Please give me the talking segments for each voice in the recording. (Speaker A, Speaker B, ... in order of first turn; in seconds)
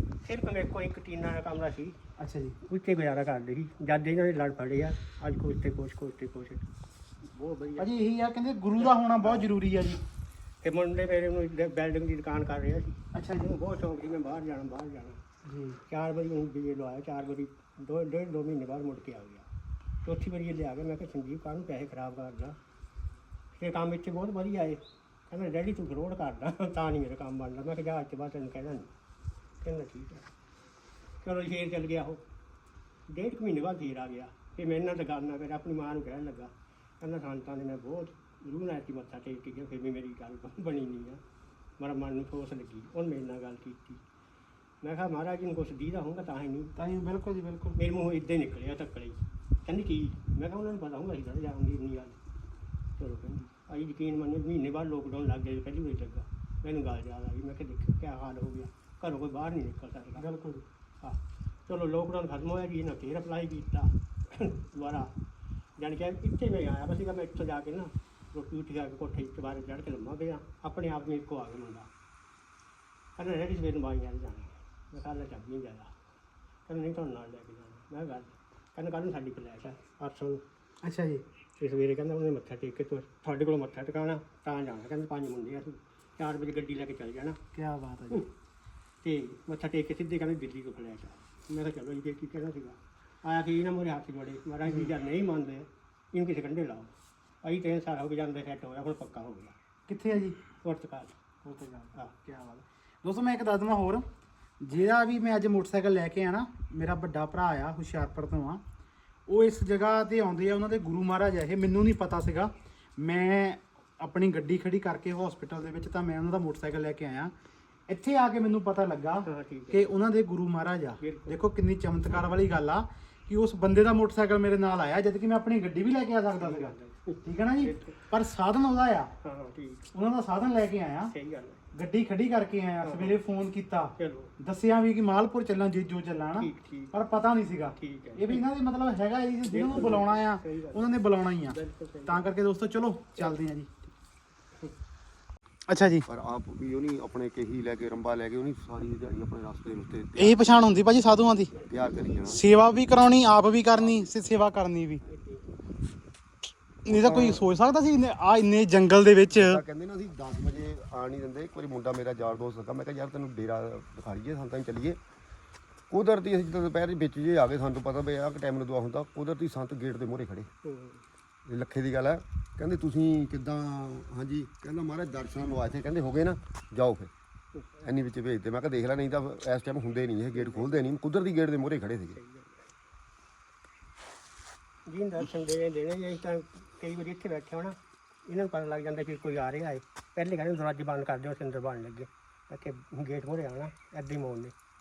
Speaker A: 0.2-2.0, 2.6-6.7, 7.3-7.9, 8.8-9.5, 10.6-15.2, 15.9-19.5, 20.0-22.6, 23.6-28.9, 29.6-30.3, 31.2-32.2, 33.1-41.2, 41.8-44.0, 44.8-46.7, 47.8-52.2, 53.0-65.1, 65.8-71.9, 73.2-75.9, 76.7-80.4, 81.6-87.4, 89.0-96.9, 97.4-99.5, 100.6-101.2, 119.2-119.9, 121.0-121.4, 126.4-128.0, 129.2-129.9, 131.1-131.6, 132.8-133.2, 134.0-134.3, 136.4-136.9, 137.8-138.5, 139.5-142.3, 155.1-155.4, 170.6-171.0, 177.6-177.8, 180.3-180.7, 182.1-182.7, 184.9-194.5
Speaker B: 2.2-2.6, 7.8-10.0, 13.1-13.5, 15.5-15.8, 46.8-47.8, 80.8-81.2, 87.5-88.2, 94.7-94.9, 99.9-100.4, 101.4-104.1, 104.6-108.6, 109.3-117.3, 117.9-129.1, 129.9-131.1, 131.7-143.8, 145.7-146.1, 150.2-151.5, 152.3-155.0, 156.9-159.6
Speaker C: 146.1-150.4, 151.7-152.4, 153.8-154.2, 156.9-157.4, 159.3-165.0, 165.9-170.5, 171.5-177.1, 177.8-182.2